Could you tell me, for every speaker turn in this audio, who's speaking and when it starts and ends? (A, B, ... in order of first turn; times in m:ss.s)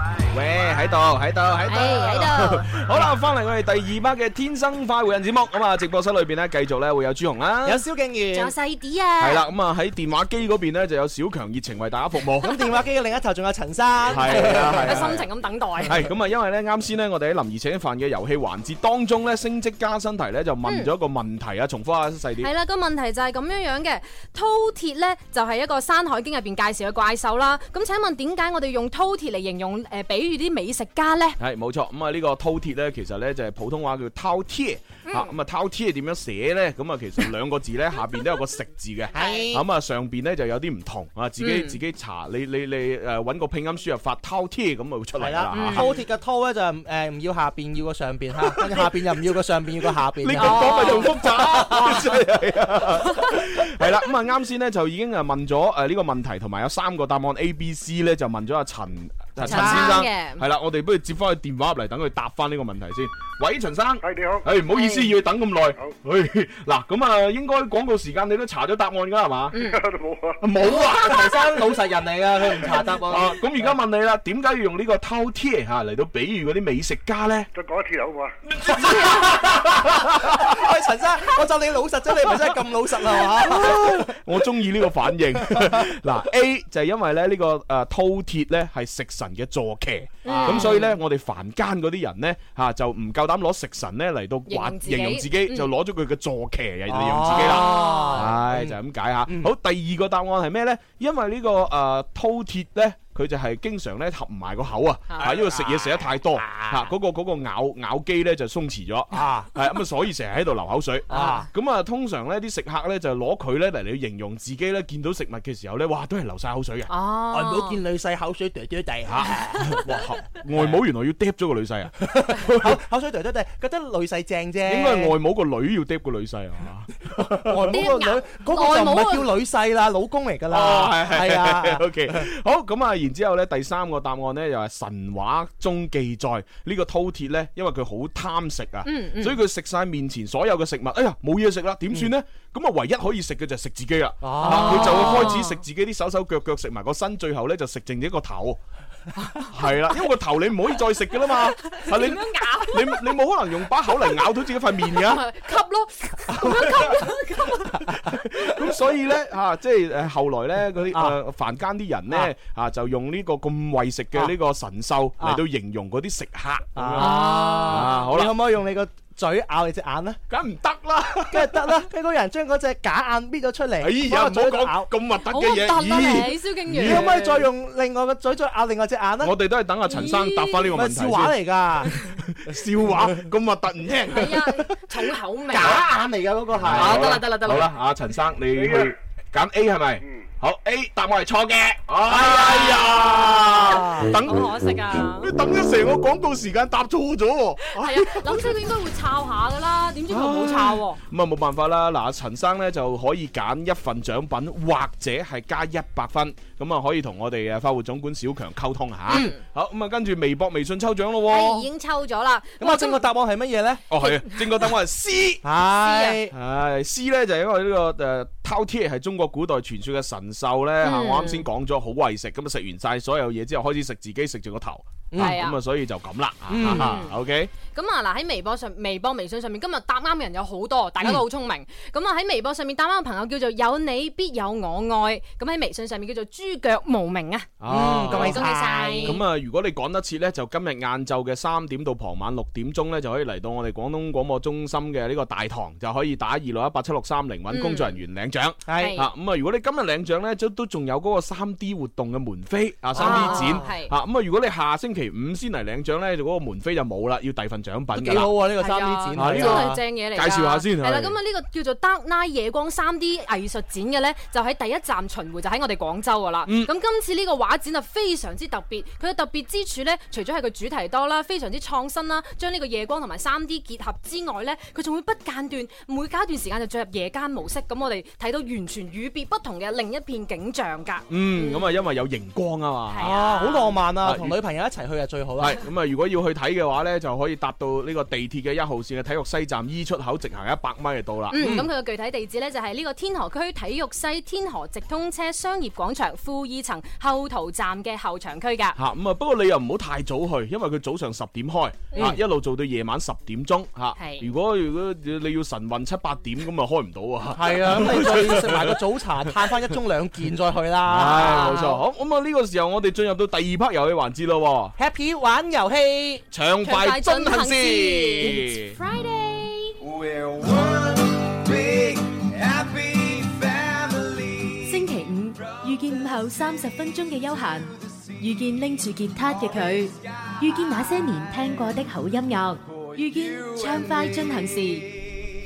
0:00.3-0:07.8 A
0:01.7-0:03.1 B
0:07.6-0:08.5 C
0:08.3-0:09.4 B
0:09.2-0:12.5 A
0:12.4-0:15.2 C
0:14.0-0:15.2 A
0:14.1-0:16.0 B
0:15.8-0:22.5 A
0:20.6-0:20.9 B
0:22.4-0:31.4 B
0:31.4-0:45.9 A
0:35.0-0:35.3 B
0:39.1-0:39.6 C
0:39.1-0:39.4 B
0:41.4-0:41.8 B
0:45.2-0:52.1 C
0:45.5-0:46.0 B
0:50.2-1:09.6 A
0:50.4-0:51.1 B
0:59.4-1:00.0 C
0:59.4-1:00.4 B
1:04.0-1:04.5 D
1:04.7-1:05.1 B
1:09.5-1:09.8 B
1:09.6-1:10.5 D
1:10.4-1:11.8 A
1:10.9-1:13.4 C
1:12.6-1:17.5 A
1:17.5-1:18.4 D
1:18.5-1:20.5 A
1:18.7-1:24.2 C
1:23.2-1:56.9 A
1:25.5-1:25.8 C
1:30.2-1:30.9 B
1:30.2-1:30.8 C
1:34.5-1:35.7 B
1:36.9-1:39.5 C
1:37.3-1:38.3 B
1:45.2-1:46.9 C
1:49.1-1:49.5 C
1:51.1-1:51.4 C
1:56.9-1:57.8 B
1:57.3-1:59.8 C
1:59.1-2:02.8 A
2:02.1-2:05.1 C
2:04.6-2:07.5 A
2:07.2-2:12.2 C
2:07.7-2:09.3 B
2:10.5-2:28.6 A
2:18.8-2:19.4 B
2:24.2-2:25.3 C
2:24.4-2:25.6 B
2:29.5-2:35.2 A
2:31.3-2:33.1 B
2:34.9-2:37.8 B
2:36.3-2:37.1 A
2:38.0-2:48.4 A
2:46.8-2:50.2 C
2:47.0-2:48.0 B
2:50.3-2:51.7 A
2:51.3-2:54.9 C
2:53.8-2:57.2 A
2:55.3-2:57.5 B
2:56.8-2:59.3 C
2:59.2-3:04.5 A
2:59.9-3:00.7 B
3:00.7-3:01.9 C
3:04.1-3:05.8 B
3:05.5-3:07.2 C
3:05.5-3:05.8 A
3:06.6-3:14.5 A
3:06.7-3:07.7 B
3:08.5-3:08.9 D
3:12.1-3:15.3 B
3:12.4-3:14.1 C
3:15.1-3:18.6 A
3:17.6-3:21.0 B
3:20.1-3:31.6 A
3:29.1-3:29.4 B
3:31.3-3:33.0 B
3:32.6-3:33.8 C
3:33.9-3:35.4 A
3:34.0-3:34.4 B
3:35.4-3:36.3 C
3:35.8-3:36.2 B
3:36.3-3:47.5 A
3:40.8-3:41.4 B
3:45.1-3:45.4 C
3:45.2-3:45.6 B
3:46.5-3:46.9 C
3:46.6-3:47.2 B
3:47.7-3:59.2 B
3:57.6-3:58.4 A
3:57.7-3:59.2 C
3:59.0-4:18.3 A
4:07.5-4:07.9 B
4:08.7-4:09.0 C
4:08.8-4:09.1 B
4:12.9-4:13.7 C
4:13.0-4:13.9 B
4:17.9-4:19.8 C
4:18.6-4:41.8 B
4:19.1-4:21.2 A
4:26.4-4:26.7 A
4:41.1-4:43.1 A
4:42.9-4:43.8 B
4:43.0-4:45.6 C
4:44.0-4:44.3 A
4:45.4-4:51.6 A
4:51.3-4:58.8 B
4:51.4-4:51.6 C
4:58.8-5:08.8 A
5:04.0-5:04.3 B
5:07.4-5:11.5 C
5:10.9-5:14.7 A
5:11.1-5:11.8 B
5:14.8-5:16.2 C
5:16.3-5:18.8 A
5:16.6-5:19.7 B
5:19.8-5:24.8 E
5:24.7-5:25.3 B
5:29.9-5:30.4 E
5:32.6-5:33.2 E